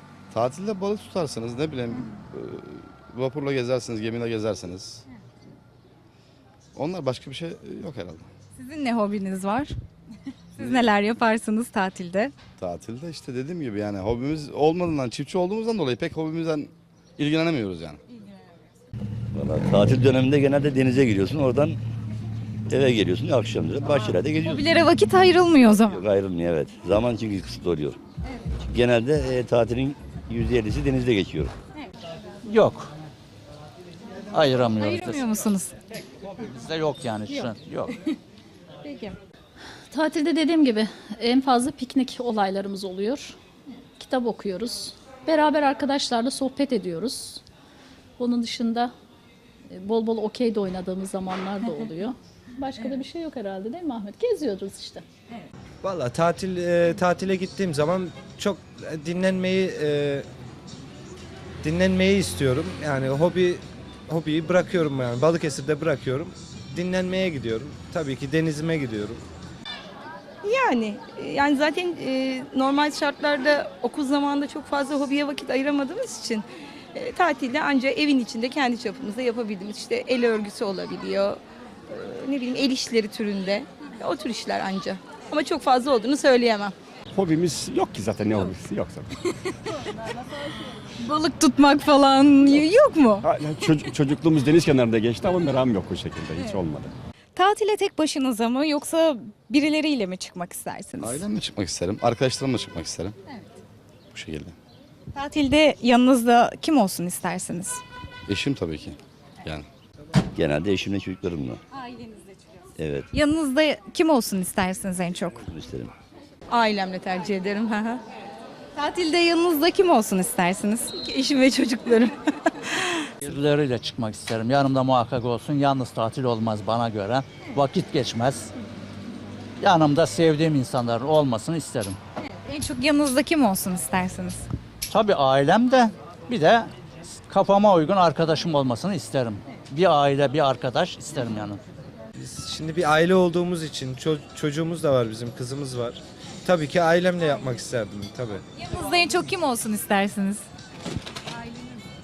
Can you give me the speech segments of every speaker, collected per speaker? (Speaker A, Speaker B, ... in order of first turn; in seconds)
Speaker A: 0.3-5.0, 6.7-8.3, 10.6-10.8, 12.6-18.0, 101.0-103.1, 104.1-104.5, 108.3-109.7
Speaker B: 8.5-9.7, 10.6-12.3, 24.4-26.0, 34.8-35.7, 38.9-39.1, 91.0-93.2, 97.3-101.2, 105.1-107.8, 113.1-115.4, 118.7-120.9, 132.4-134.4, 148.6-150.4
Speaker C: 19.3-21.8, 22.7-24.7, 25.9-28.0, 28.6-31.5, 110.3-111.6, 112.8-113.1, 115.5-115.9
Speaker D: 32.5-32.9, 34.3-35.2, 36.4-37.9, 123.2-128.5, 129.6-132.0, 134.9-141.6
Speaker E: 39.9-43.4, 44.0-47.4, 48.2-48.9, 49.7-55.0
Speaker F: 55.8-60.2, 61.6-69.2, 142.2-148.4
Speaker G: 70.4-86.7, 116.5-118.0, 121.0-122.1
Speaker H: 87.1-89.1, 93.2-96.9